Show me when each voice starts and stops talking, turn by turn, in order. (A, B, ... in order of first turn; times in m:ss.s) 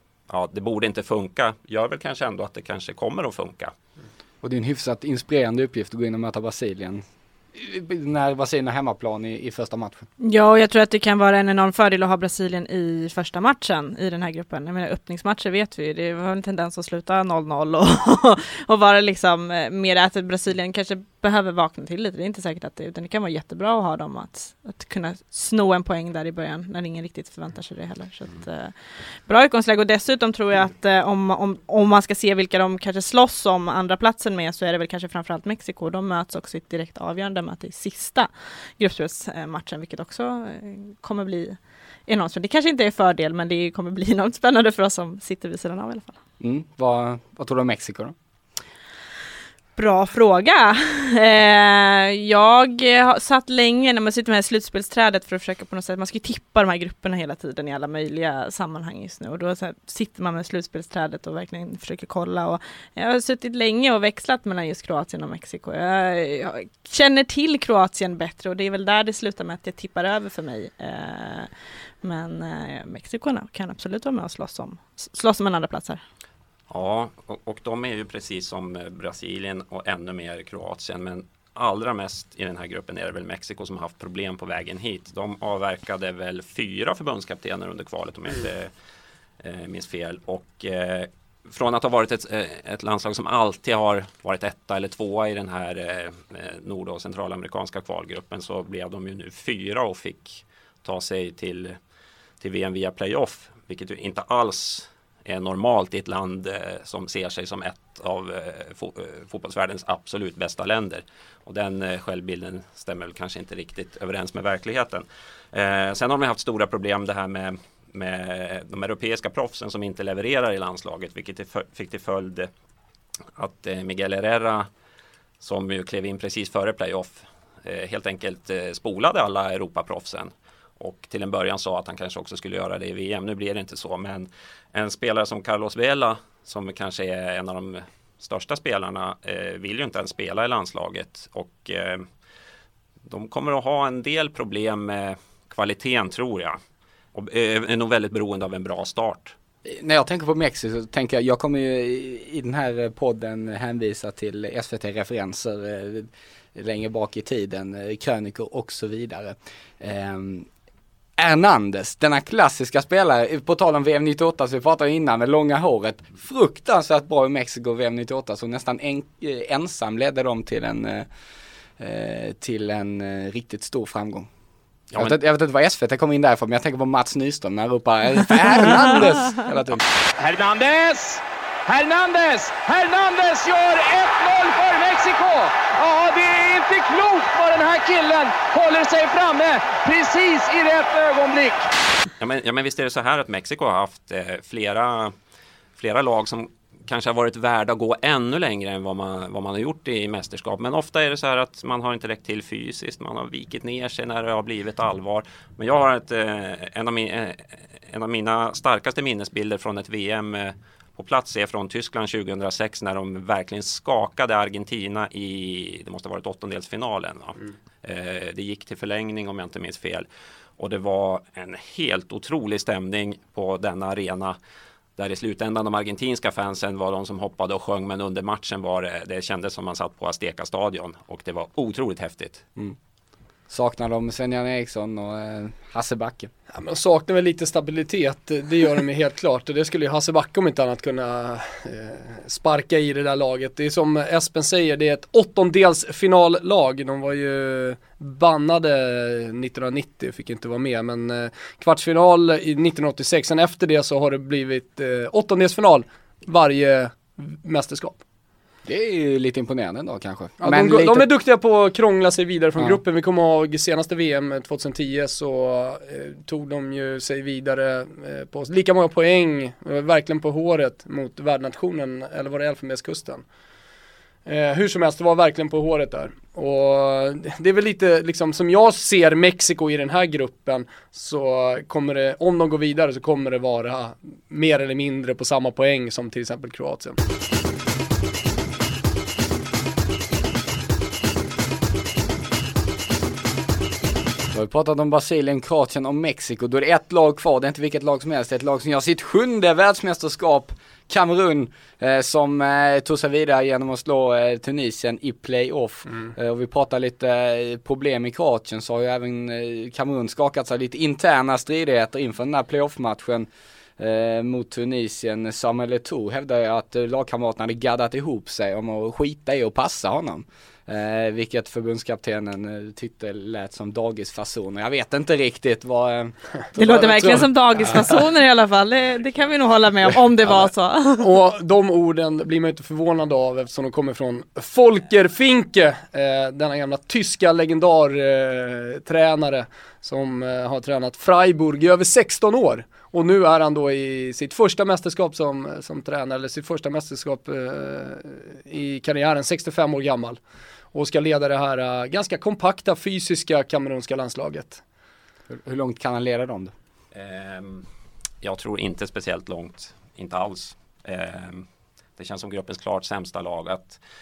0:00.3-0:03.7 A
0:04.4-0:07.0 B
0:07.6-0:10.1 B
0:10.2-0:46.2 C
0:46.4-0:48.2 B
0:49.8-1:11.5 C
1:12.0-1:16.0 C
1:16.7-1:28.7 A
1:29.4-1:41.8 A
1:42.4-2:02.5 A
2:03.4-2:04.7 A
2:05.4-2:22.1 A
2:23.1-2:26.6 A
2:27.1-2:29.4 A
2:29.7-2:40.5 B
2:41.2-2:51.1 B
2:51.8-2:54.3 B
2:55.0-2:59.8 B
3:00.2-3:11.7 D
3:12.2-3:15.1 A
3:15.8-3:40.1 A
3:40.6-3:44.4 A
3:45.0-3:52.4 A
3:53.5-3:56.3 B
3:56.5-4:18.0 E
4:18.7-4:21.1 B
4:20.4-4:33.2 E
4:34.3-4:47.0 E
4:54.3-5:28.0 B
5:26.6-5:31.1 C
5:31.0-5:50.2 E
5:50.7-5:54.6 E
5:55.3-5:56.5 B
5:56.9-5:57.7 A
5:58.2-6:01.5 A
6:02.0-6:03.8 A